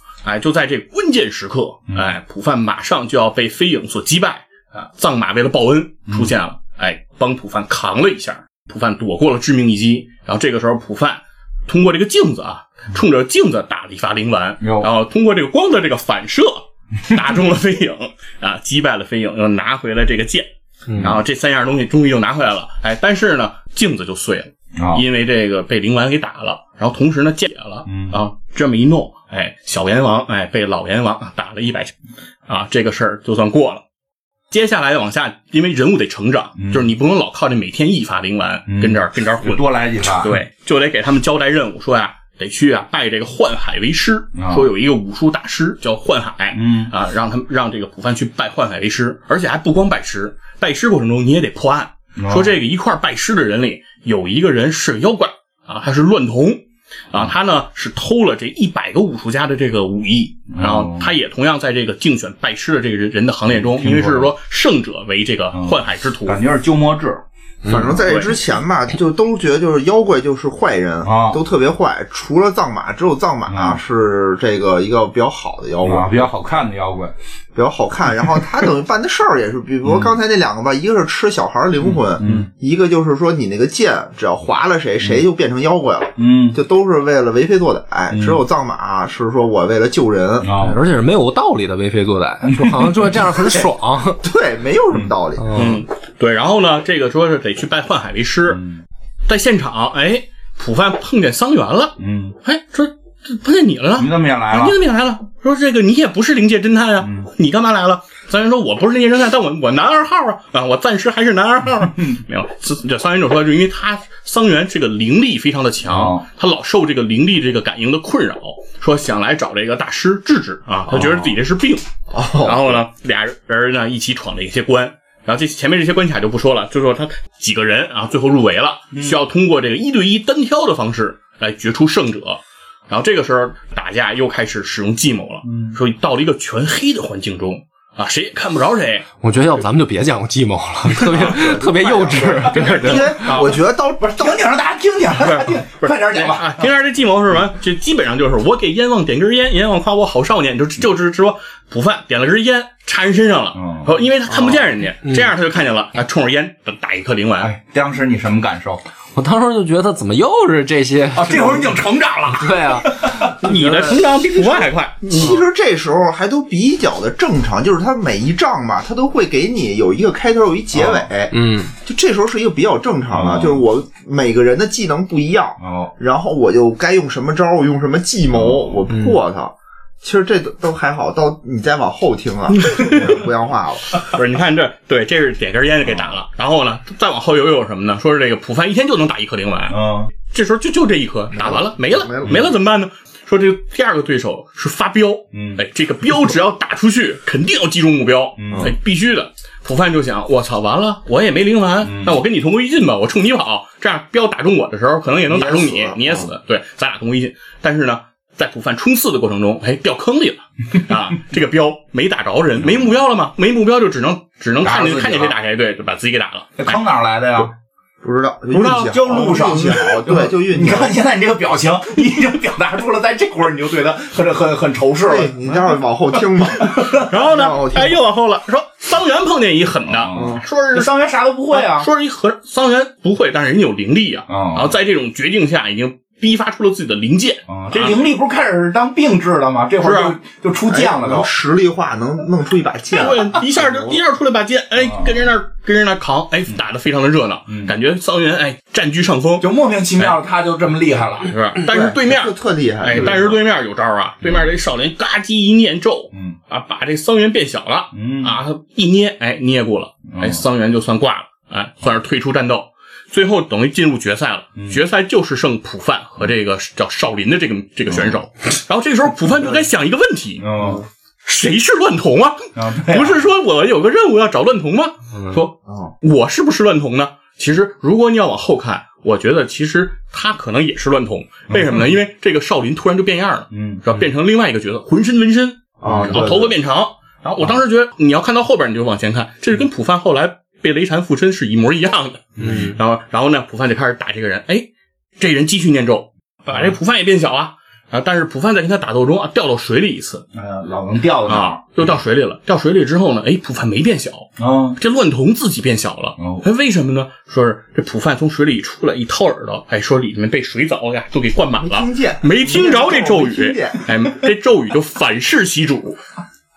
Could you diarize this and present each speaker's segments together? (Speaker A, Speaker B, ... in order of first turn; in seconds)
Speaker A: 0.2-20.5, 21.0-31.9, 32.5-33.8, 34.5-56.6, 57.1-66.4, 68.1-68.4, 95.5-98.6, 99.3-139.1, 142.5-143.6, 145.2-157.5, 163.4-165.4, 182.7-183.2, 184.0-216.8, 218.5-219.8, 227.0-230.9, 231.5-238.0, 239.8-240.2, 242.9-250.2, 251.2-270.5, 271.2-294.7, 295.2-300.2, 301.3-316.0
Speaker B: 14.6-14.9, 24.8-25.1, 27.9-28.2, 36.6-36.9, 38.7-40.4, 44.4-44.7, 46.5-46.9, 52.2-52.6, 60.5-61.1, 63.5-64.3, 65.5-68.0, 71.0-71.4, 73.5-73.8, 75.8-77.1, 79.8-80.2, 81.8-82.5, 86.2-86.6, 88.1-88.4, 90.4-90.8, 92.5-93.1, 98.5-98.8, 102.0-102.4, 104.0-104.8, 107.0-107.3, 115.8-116.2, 128.9-129.2, 135.4-135.8, 144.0-146.7, 153.6-154.0, 157.4-158.8, 161.2-163.4, 170.8-171.1, 173.1-173.6, 175.6-175.9, 178.3-178.8, 189.7-190.1, 195.3-195.6, 198.4-198.8, 201.8-202.2, 214.6-215.4, 216.6-217.5, 218.7-225.7, 226.6-227.1, 229.9-231.9, 234.3-234.8, 237.5-241.3, 244.8-245.2, 247.5-247.7, 249.4-251.3, 254.2-254.5, 257.9-258.4, 260.1-260.4, 267.9-268.2, 270.4-270.9, 272.6-273.2, 281.5-281.9, 283.5-283.8, 285.9-286.4, 300.3-301.9, 304.4-304.8, 306.2-306.4
Speaker C: 20.9-21.2, 67.7-68.0, 90.6-94.2, 95.4-95.8, 139.2-143.2, 155.0-155.3, 159.2-161.8, 162.3-162.9, 163.4-164.0, 171.3-171.7, 178.9-179.2, 292.4-292.8
Speaker D: 67.7-76.2, 77.5-90.6, 94.2-95.7, 122.1-122.8, 141.0-144.4, 154.3-154.7, 164.2-184.1, 191.3-192.5, 205.3-206.3, 218.0-221.0, 225.0-228.0, 230.1-230.4, 240.7-244.0, 251.6-253.4, 275.7-275.9, 285.8-286.5, 311.6-313.9